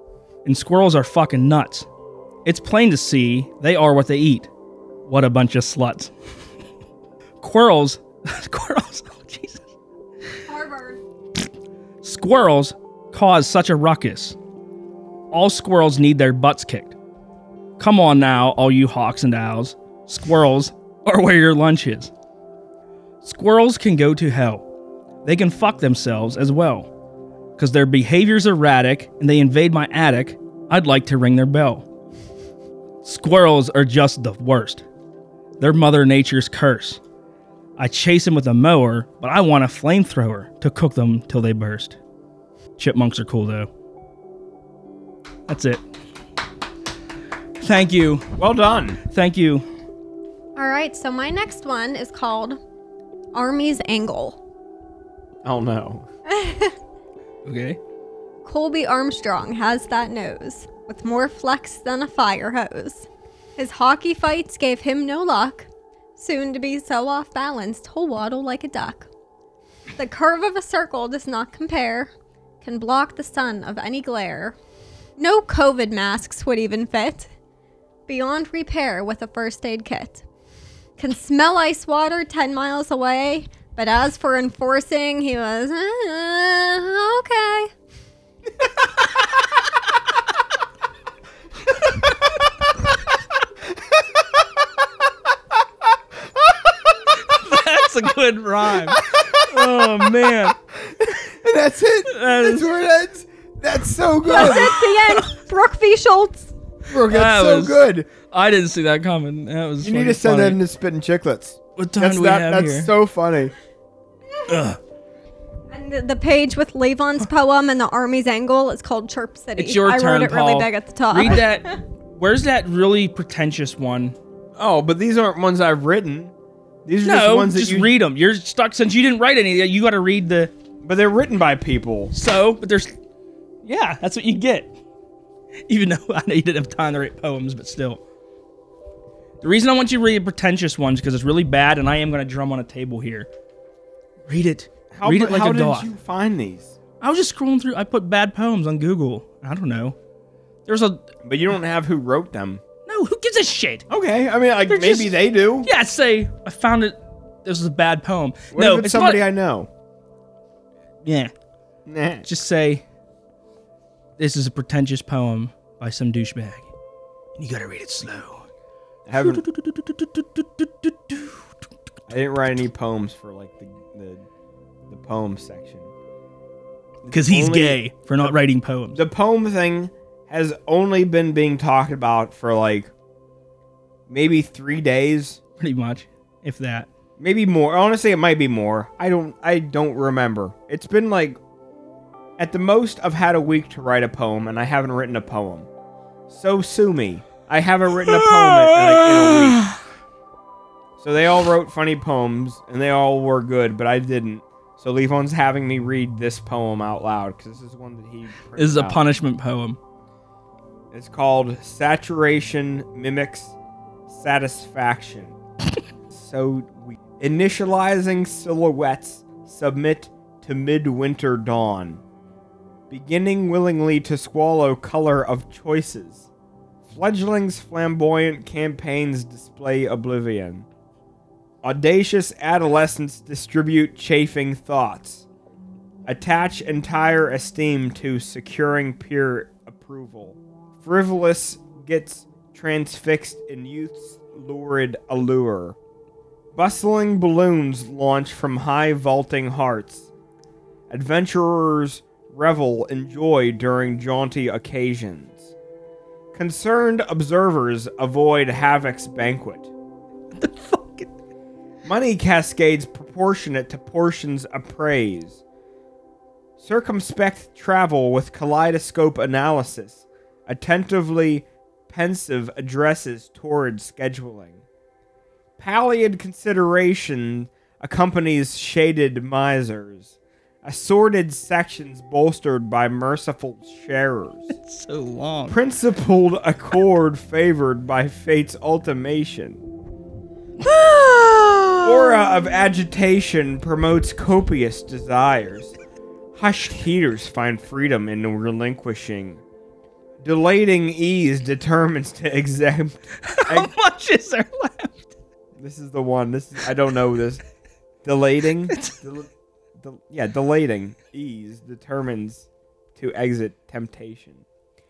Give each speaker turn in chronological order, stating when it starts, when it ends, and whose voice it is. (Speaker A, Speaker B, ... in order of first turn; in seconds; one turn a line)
Speaker A: 0.4-1.9
Speaker A: 2.4-4.5
Speaker A: 5.1-6.1
Speaker A: 7.4-9.7
Speaker B: 10.5-11.0
Speaker A: 12.0-14.4
Speaker A: 15.3-16.9
Speaker A: 17.8-22.1
Speaker A: 23.2-24.6
Speaker A: 25.2-26.9
Speaker A: 27.6-31.8
Speaker A: 33.0-34.8
Speaker A: 35.6-37.0
Speaker A: 37.8-42.0
Speaker A: 42.8-43.7
Speaker A: 45.5-45.8
Speaker A: 47.6-48.3
Speaker C: 48.4-49.0
Speaker A: 49.1-49.6
Speaker B: 50.5-52.6
Speaker B: 53.3-54.4
Speaker C: 55.4-56.0
Speaker B: 56.3-56.7
Speaker A: 57.4-57.8
Speaker B: 58.4-69.1
Speaker B: 70.0-74.5
Speaker B: 75.2-77.3
Speaker B: 78.1-80.2
Speaker B: 81.0-87.7
Speaker C: 94.2-94.4
Speaker A: 97.2-100.5
Speaker C: 98.9-100.1
Speaker C: 100.8-104.8
Speaker A: 102.1-102.7
Speaker B: 104.2-106.5
Speaker A: 104.3-105.3
Speaker C: 106.9-108.1
Speaker A: 106.9-110.6
Speaker C: 109.8-113.5
Speaker A: 111.8-112.9
Speaker A: 114.5-114.8
Speaker B: 115.7-121.5
Speaker A: 119.6-124.2
Speaker C: 124.6-126.3
Speaker C: 126.8-127.9
Speaker A: 127.0-130.5
Speaker C: 130.8-132.1
Speaker A: 132.1-132.9
Speaker A: 133.6-134.7
Speaker A: 135.7-138.0
Speaker A: 139.4-143.3
Speaker A: 144.3-145.9
Speaker C: 144.9-146.7
Speaker A: 147.0-149.9
Speaker A: 150.7-151.0
Speaker C: 151.2-152.6
Speaker A: 152.9-153.8
Speaker C: 153.9-155.7
Speaker A: 154.7-159.2
Speaker C: 158.5-159.7
Speaker A: 161.0-161.3
Speaker C: 161.9-162.2
Speaker A: 162.2-162.8
Speaker A: 164.2-166.7
Speaker A: 167.4-168.4
Speaker C: 169.1-169.4
Speaker A: 169.2-171.4
Speaker C: 172.1-174.2
Speaker C: 174.9-175.9
Speaker C: 177.1-178.3
Speaker A: 177.1-179.0
Speaker C: 178.9-182.9
Speaker C: 184.1-185.4
Speaker A: 185.6-186.9
Speaker C: 187.2-191.4
Speaker C: 192.4-195.7
Speaker C: 196.3-199.6
Speaker A: 198.0-199.8
Speaker C: 201.0-209.0
Speaker A: 208.6-209.8
Speaker C: 210.9-213.5
Speaker C: 214.1-215.3
Speaker C: 216.1-222.0
Speaker C: 222.9-226.3
Speaker C: 226.8-230.7
Speaker C: 231.6-235.2
Speaker C: 236.1-245.8
Speaker C: 246.5-250.1
Speaker C: 250.9-255.5
Speaker C: 256.3-259.7
Speaker A: 260.3-261.1
Speaker C: 261.8-265.4
Speaker C: 266.6-274.6
Speaker C: 275.6-284.5
Speaker A: 284.5-285.6
Speaker C: 285.5-289.6
Speaker A: 290.6-292.4
Speaker C: 291.8-295.7
Speaker C: 296.4-299.4
Speaker C: 300.2-303.7
Speaker A: 303.2-305.1
Speaker C: 305.6-307.4
Speaker C: 308.0-314.4
Speaker A: 308.7-308.9